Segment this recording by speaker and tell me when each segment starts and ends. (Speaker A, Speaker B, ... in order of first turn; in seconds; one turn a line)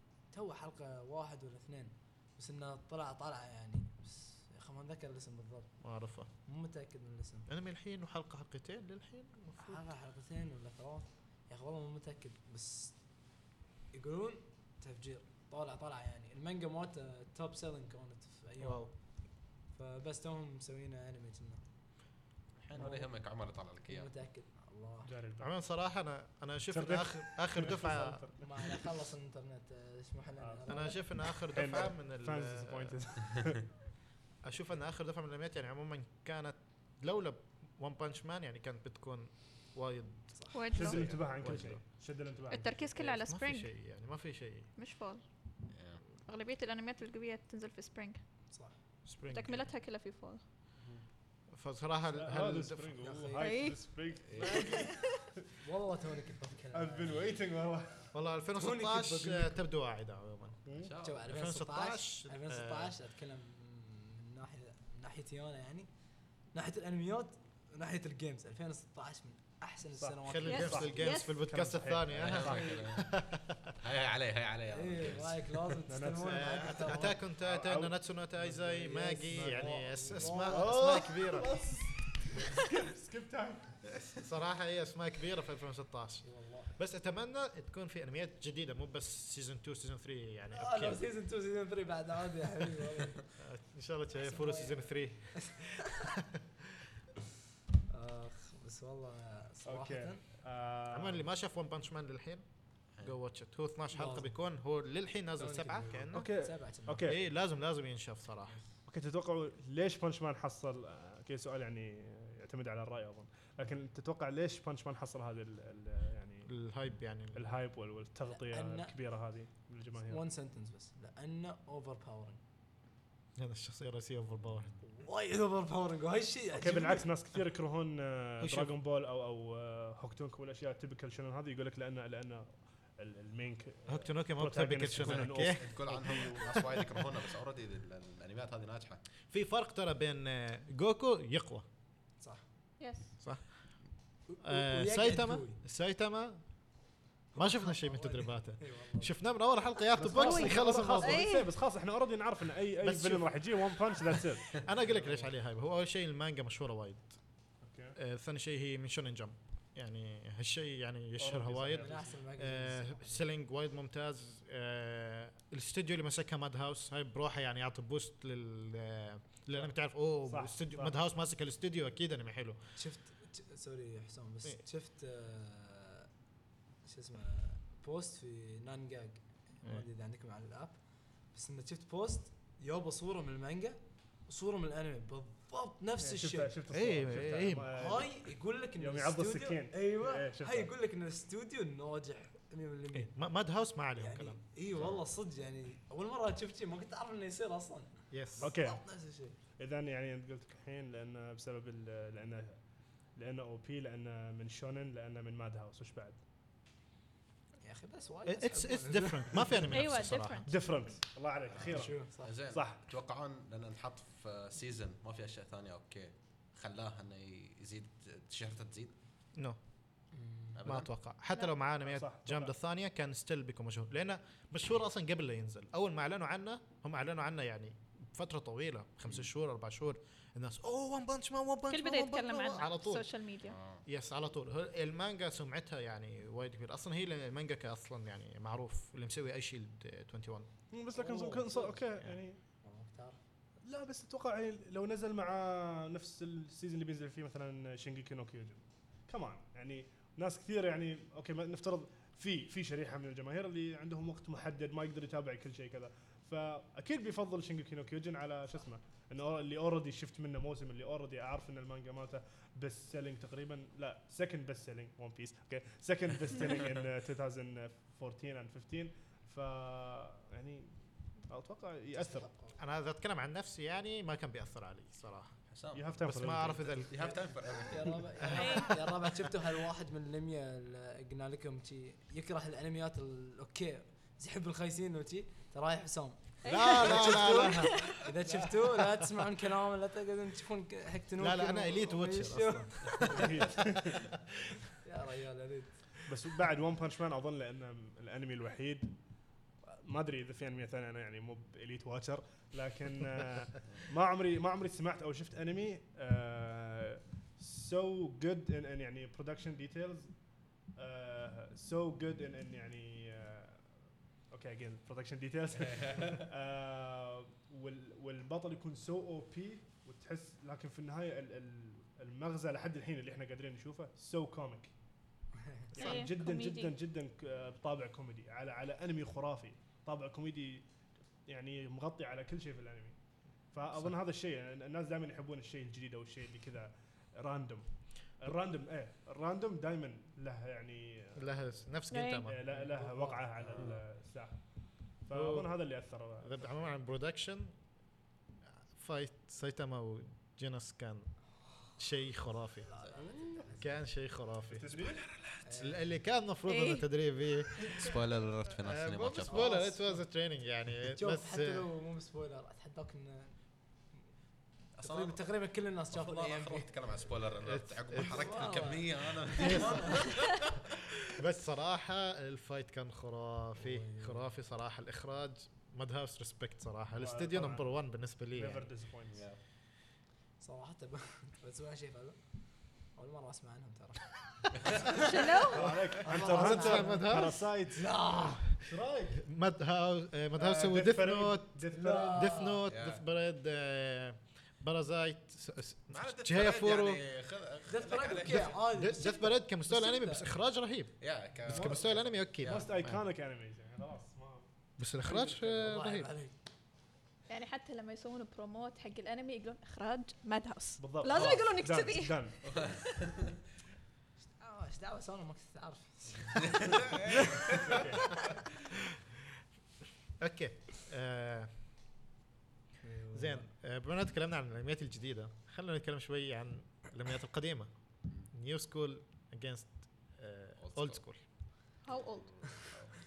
Speaker A: 0.3-5.7
Speaker B: 5.8-6.3
Speaker A: 6.5-7.5
Speaker B: 7.5-9.8
Speaker A: 9.6-13.0
Speaker A: 13.9-19.0
Speaker B: 18.6-18.9
Speaker A: 19.7-21.6
Speaker C: 22.6-24.1
Speaker A: 22.8-23.1
Speaker A: 23.9-25.1
Speaker D: 25.1-25.5
Speaker B: 25.4-28.2
Speaker D: 26.7-28.9
Speaker A: 28.4-31.0
Speaker D: 30.4-33.7
Speaker B: 30.7-33.0
Speaker B: 34.4-41.8
Speaker A: 40.3-40.7
Speaker E: 40.5-41.0
Speaker D: 40.7-42.9
Speaker E: 42.5-43.7
Speaker B: 43.0-44.7
Speaker E: 44.8-45.2
Speaker C: 45.7-46.0
Speaker E: 46.2-48.2
Speaker B: 49.1-49.7
Speaker E: 49.3-50.4
Speaker B: 51.5-53.0
Speaker D: 52.1-55.5
Speaker A: 53.0-53.5
Speaker E: 53.4-53.8
Speaker C: 54.3-54.7
Speaker E: 54.7-55.1
Speaker A: 55.6-57.2
Speaker D: 56.7-58.1
Speaker B: 58.1-60.6
Speaker A: 58.6-59.6
Speaker D: 60.7-60.9
Speaker C: 60.8-61.3
Speaker A: 61.0-65.9
Speaker B: 61.3-62.9
Speaker A: 66.5-71.0
Speaker D: 70.0-72.8
Speaker B: 70.2-73.8
Speaker E: 70.5-71.4
Speaker C: 72.1-73.1
Speaker A: 72.4-72.8
Speaker C: 73.8-75.8
Speaker A: 74.7-77.2
Speaker D: 75.9-76.9
Speaker B: 76.2-81.6
Speaker D: 77.4-78.0
Speaker A: 78.4-81.0
Speaker D: 79.3-79.7
Speaker D: 80.2-83.8
Speaker B: 84.2-91.0
Speaker A: 86.2-86.7
Speaker A: 90.5-93.2
Speaker B: 93.4-96.8
Speaker A: 94.2-96.1
Speaker A: 97.9-100.2
Speaker D: 99.7-101.3
Speaker B: 100.9-102.5
Speaker B: 103.0-106.3
Speaker A: 103.9-104.3
Speaker A: 105.4-107.1
Speaker D: 106.1-107.2
Speaker B: 107.0-108.6
Speaker D: 108.9-116.5
Speaker B: 116.5-117.5
Speaker D: 117.3-120.2
Speaker A: 118.3-119.0
Speaker A: 120.1-122.4
Speaker B: 123.4-124.7
Speaker A: 124.8-127.1
Speaker D: 126.5-136.6
Speaker B: 128.4-128.7
Speaker B: 133.9-135.7
Speaker C: 135.0-139.0
Speaker B: 139.3-141.7
Speaker E: 142.8-143.1
Speaker A: 144.3-145.6
Speaker B: 144.4-146.4
Speaker A: 147.3-149.1
Speaker B: 147.4-151.3
Speaker D: 150.0-154.6
Speaker E: 150.2-151.5
Speaker B: 152.8-153.4
Speaker B: 154.5-157.2
Speaker D: 157.6-158.0
Speaker B: 158.0-172.6
Speaker D: 161.2-162.1
Speaker A: 161.8-163.2
Speaker D: 170.3-171.0
Speaker A: 172.8-176.1
Speaker A: 176.8-180.8
Speaker A: 181.3-186.5
Speaker D: 186.0-188.1
Speaker B: 186.7-187.7
Speaker A: 187.7-193.1
Speaker D: 188.8-190.7
Speaker B: 192.9-194.4
Speaker A: 194.0-199.4
Speaker C: 194.7-195.0
Speaker B: 198.1-198.5
Speaker D: 198.4-198.8
Speaker D: 199.6-202.6
Speaker D: 203.2-206.2
Speaker A: 207.6-209.7
Speaker B: 208.3-210.5
Speaker E: 209.7-210.5
Speaker D: 210.5-212.9
Speaker C: 211.5-218.9
Speaker A: 211.7-212.3
Speaker A: 220.1-220.6
Speaker C: 220.6-220.9
Speaker B: 220.7-233.1
Speaker D: 221.8-222.5
Speaker E: 231.7-233.6
Speaker C: 233.4-233.8
Speaker B: 233.9-240.5
Speaker D: 240.7-242.4
Speaker A: 240.9-241.8
Speaker A: 242.6-243.2
Speaker D: 243.6-270.8
Speaker D: 271.3-272.3
Speaker A: 272.0-272.6
Speaker B: 272.6-275.3
Speaker C: 275.5-278.1
Speaker D: 275.7-276.6
Speaker B: 276.0-276.9
Speaker A: 277.1-293.6
Speaker B: 278.2-278.9
Speaker E: 278.3-278.8
Speaker E: 286.4-288.0
Speaker B: 286.4-289.1
Speaker B: 291.2-293.3
Speaker D: 293.0-294.0
Speaker A: 294.8-295.8
Speaker D: 296.1-298.9
Speaker D: 299.6-310.2
Speaker D: 310.8-313.7
Speaker D: 314.3-324.7
Speaker C: 315.6-316.2
Speaker A: 325.4-325.8
Speaker D: 325.7-330.6
Speaker E: 325.8-326.7
Speaker D: 331.3-333.0
Speaker D: 333.5-337.7
Speaker D: 338.2-341.4
Speaker B: 341.2-343.0
Speaker E: 341.9-342.3
Speaker D: 342.2-344.4
Speaker A: 342.6-343.5
Speaker D: 345.0-346.6
Speaker B: 345.1-345.6
Speaker B: 346.2-347.6
Speaker B: 348.7-351.1
Speaker B: 351.8-352.7
Speaker A: 352.7-353.6
Speaker C: 352.9-353.4
Speaker B: 353.6-354.7
Speaker D: 354.5-355.0
Speaker C: 354.8-355.5
Speaker A: 355.4-355.9
Speaker B: 355.6-358.0
Speaker E: 356.5-356.9
Speaker C: 357.6-359.4
Speaker B: 358.6-361.7
Speaker A: 359.3-360.0
Speaker A: 360.9-363.4
Speaker C: 364.8-365.2
Speaker A: 364.8-366.7
Speaker C: 365.9-370.8
Speaker B: 367.4-368.2
Speaker A: 368.0-370.1
Speaker B: 369.4-370.2
Speaker B: 371.2-378.7
Speaker A: 373.6-374.2
Speaker D: 377.0-377.7
Speaker D: 378.3-379.2
Speaker C: 379.1-379.4
Speaker A: 380.4-382.2
Speaker A: 382.9-388.4
Speaker E: 385.0-385.6
Speaker D: 385.5-388.0
Speaker B: 386.2-387.4
Speaker D: 388.5-389.2
Speaker B: 389.1-397.0
Speaker D: 390.4-392.3
Speaker A: 391.7-392.7
Speaker C: 392.7-393.0
Speaker C: 395.9-398.6
Speaker A: 397.7-400.3
Speaker B: 398.7-403.0
Speaker C: 401.0-402.7
Speaker D: 401.5-401.9
Speaker D: 402.4-404.5
Speaker B: 404.8-406.1
Speaker D: 405.1-405.4
Speaker A: 405.1-406.3
Speaker E: 407.3-412.2
Speaker D: 410.8-412.7
Speaker C: 412.4-413.4
Speaker A: 414.4-417.9
Speaker C: 416.4-417.7
Speaker D: 417.5-418.2
Speaker B: 420.2-421.5
Speaker A: 422.8-423.5
Speaker B: 423.1-427.7
Speaker B: 428.3-431.2
Speaker C: 430.6-431.0
Speaker E: 431.9-432.4
Speaker C: 432.1-432.7